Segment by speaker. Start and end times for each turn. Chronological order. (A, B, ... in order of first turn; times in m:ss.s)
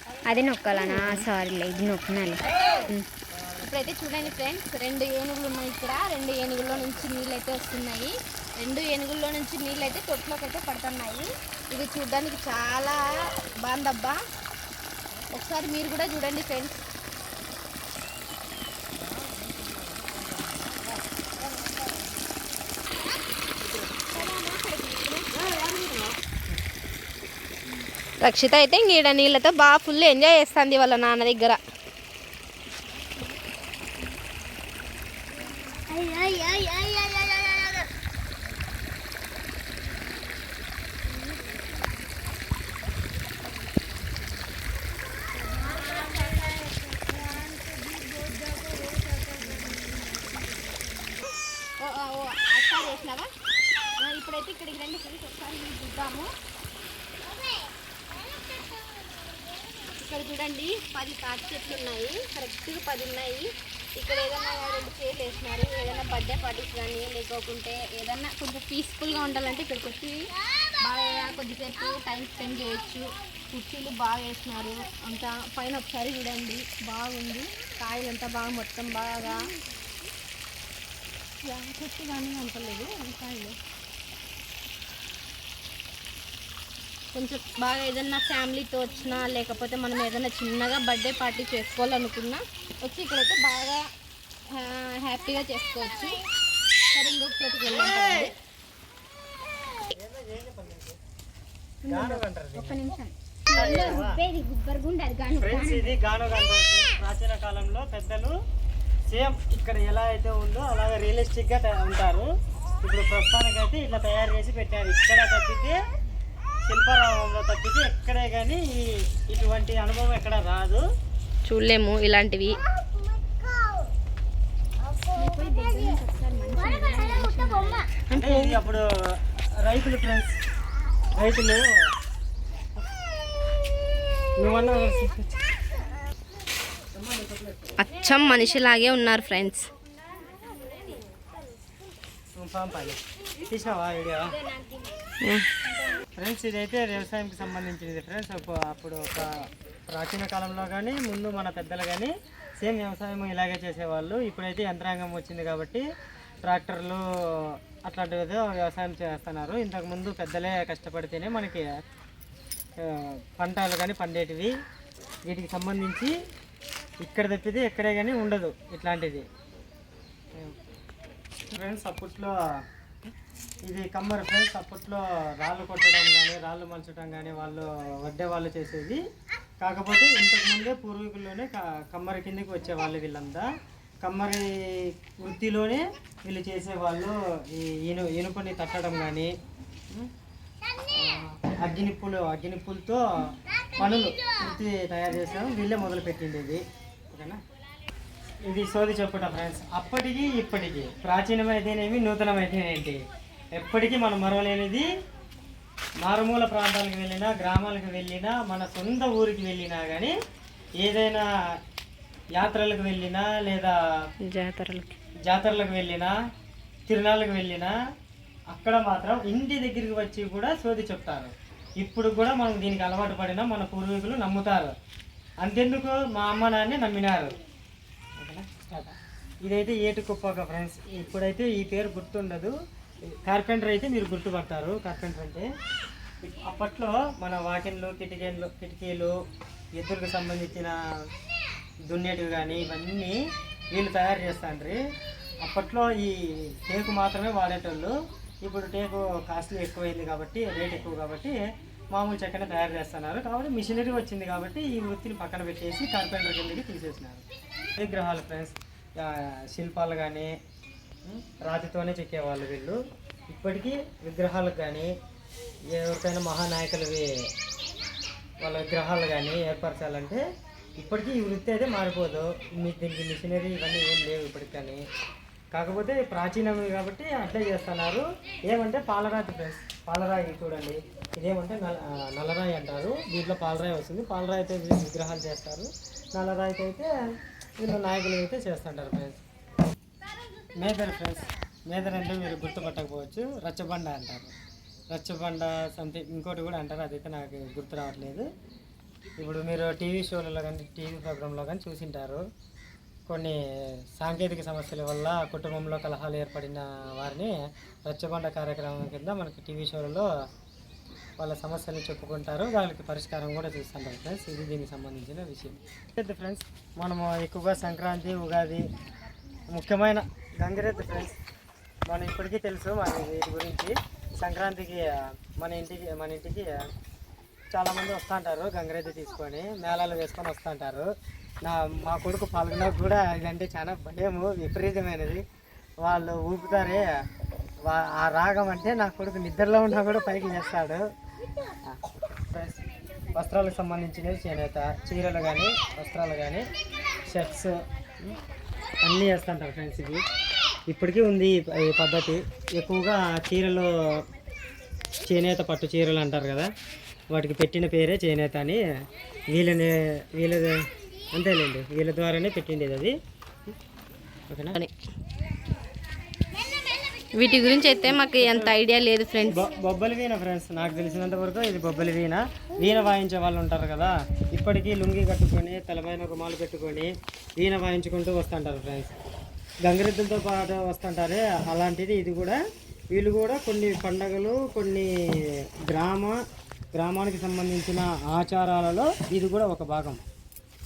0:00.3-0:03.1 A
0:03.3-0:04.6 B
0:03.6-0:14.2 C
0:06.7-0:07.2 B
0:15.3-0:16.8 C
0:19.0-0:21.2 B
0:24.2-0:26.2 C
0:28.2-0:31.6 C
0:35.9-0:37.7 C
0:45.6-0:50.4 C
0:51.8-0:53.3 C
0:54.0-0:56.3 C
1:00.0-1:19.4 C
1:21.4-1:23.6 C
1:27.1-1:33.9 C
1:34.5-1:36.2 C
1:36.9-1:38.3 C
1:39.9-1:41.0 B
1:41.8-1:46.0 A
1:41.9-1:42.8 B
1:43.5-1:44.2 B
1:45.4-1:48.4 B
1:49.1-1:52.3 B
1:52.8-1:55.8 B
1:56.7-2:00.8 B
2:01.4-2:02.6 C
2:05.2-2:07.8 A
2:07.6-2:08.8 C
2:08.1-2:10.4 B
2:11.1-2:11.7 B
2:14.4-2:15.4 B
2:16.9-2:17.7 B
2:17.8-2:19.7 C
2:22.4-2:24.4 B
2:24.5-2:24.9 A
2:25.2-2:25.5 C
2:26.2-2:29.3 B
2:29.9-2:35.8 B
2:36.4-2:41.6 B
2:42.8-2:44.5 B
2:45.3-2:46.1 B
2:47.0-2:49.2 B
2:51.5-2:52.4 B
2:53.6-2:59.0 B
2:59.6-3:03.5 B
3:04.0-3:09.3 B
3:10.9-3:17.4 B
3:18.4-3:23.0 B
3:23.6-3:24.9 B
3:26.0-3:30.1 B
3:30.8-3:31.2 B
3:32.3-3:33.8 B
3:34.2-3:35.0 C
3:35.3-3:36.1 B
3:36.9-3:37.7 B
3:38.5-3:44.7 B
3:45.4-3:47.4 B
3:48.2-3:52.5 B
3:53.1-3:55.5 B
3:56.2-3:59.2 B
3:59.8-4:00.8 B
4:01.9-4:03.2 B
4:03.7-4:04.8 B
4:05.4-4:11.4 B
4:11.9-4:17.2 B
4:17.8-4:20.3 B
4:21.0-4:22.8 B
4:23.3-4:24.9 B
4:25.7-4:27.1 B
4:28.4-4:30.2 B
4:30.8-4:34.8 B
4:35.5-4:46.9 B
4:47.6-4:49.2 B
4:50.6-4:54.3 B
4:54.9-4:58.3 B
4:59.2-5:02.2 B
5:03.1-5:07.3 B
5:07.9-5:10.1 B
5:11.2-5:18.6 B
5:19.5-5:21.2 B
5:21.9-5:24.9 B
5:25.4-5:26.6 B
5:27.5-5:30.9 B
5:31.4-5:35.2 B
5:35.8-5:36.9 B
5:37.7-5:40.9 B
5:42.3-5:42.6 B
5:43.2-5:46.4 B
5:47.0-5:48.2 B
5:48.8-5:50.0 B
5:50.7-5:54.0 B
5:55.1-5:56.5 B
5:57.1-5:58.6 B
5:59.3-6:02.9 B
6:04.3-6:04.6 B
6:07.2-6:09.4 C
6:07.8-6:08.6 B
6:09.3-6:18.9 B
6:19.6-6:22.4 B
6:22.9-6:26.2 B
6:26.7-6:30.0 B